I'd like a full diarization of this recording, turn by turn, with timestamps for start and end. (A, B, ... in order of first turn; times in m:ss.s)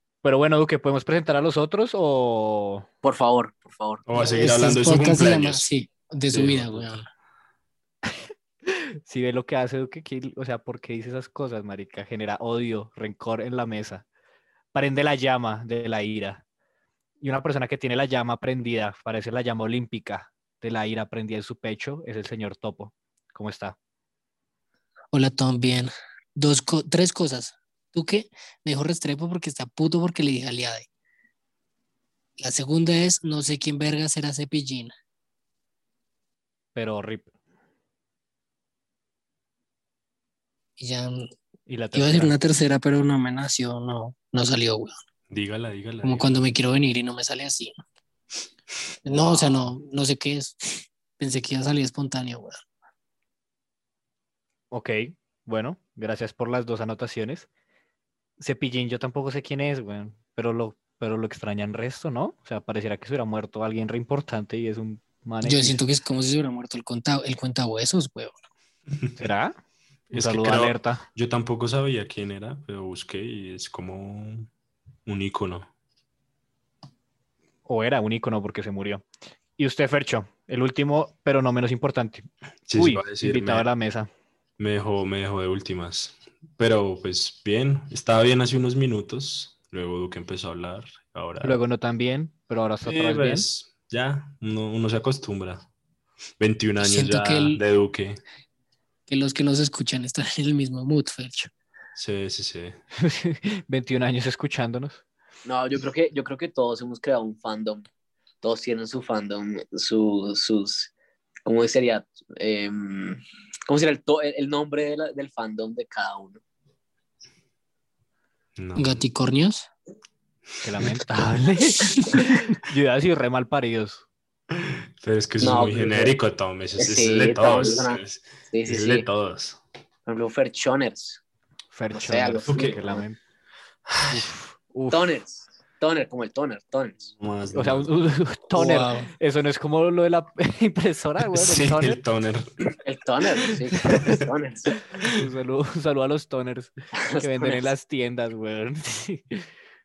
0:00.2-0:02.8 A
0:03.0-0:04.0 B
0:04.1-0:05.6 C
0:04.2-0:07.0 D
0:06.3-0:06.9 C
0:08.6-0:14.0 A
0:14.7-0:16.4 A
0:17.2-0:23.8 A
0:25.1-0:30.9 D
0:32.4-0:34.9 D
0:36.7-0:37.3 A
0:40.8-0:41.3 D
0:41.7-0:42.3 A
0:41.9-0:44.9 D
0:45.3-0:46.3 C
0:46.0-0:47.7 D
0:49.0-0:52.6 D
0:54.7-0:57.5 A
0:58.4-1:05.8 A
1:05.4-1:08.4 D
1:09.2-1:09.6 A
1:10.1-1:11.0 A
1:10.1-1:14.5 C
1:15.0-1:15.7 C
1:17.6-1:19.0 A
1:19.6-1:24.1 A
1:22.7-1:23.7 C
1:24.6-1:31.6 C
1:31.4-1:33.5 A
1:32.8-1:35.7 C
1:36.4-1:38.2 C
1:36.8-1:37.6 D
1:39.1-1:41.5 D
1:41.9-1:42.8 C
1:43.0-1:45.0 A
1:45.4-1:47.8 B
1:48.4-1:50.9 B
1:51.4-1:56.4 B
1:58.6-1:59.0 C
1:58.8-1:59.7 D
2:00.6-2:04.0 A
2:04.5-2:09.6 C
2:05.4-2:06.2 B
2:06.8-2:09.0 B
2:10.0-2:11.2 B
2:11.7-2:13.2 A
2:11.9-2:13.0 B
2:12.5-2:12.8 C
2:13.9-2:14.2 C
2:14.1-2:15.1 A
2:14.9-2:17.1 B
2:17.1-2:17.9 C
2:17.5-2:22.0 A
2:18.5-2:19.1 D
2:21.3-2:22.6 C
2:22.8-2:24.7 B
2:25.1-2:29.5 A
2:27.0-2:27.7 B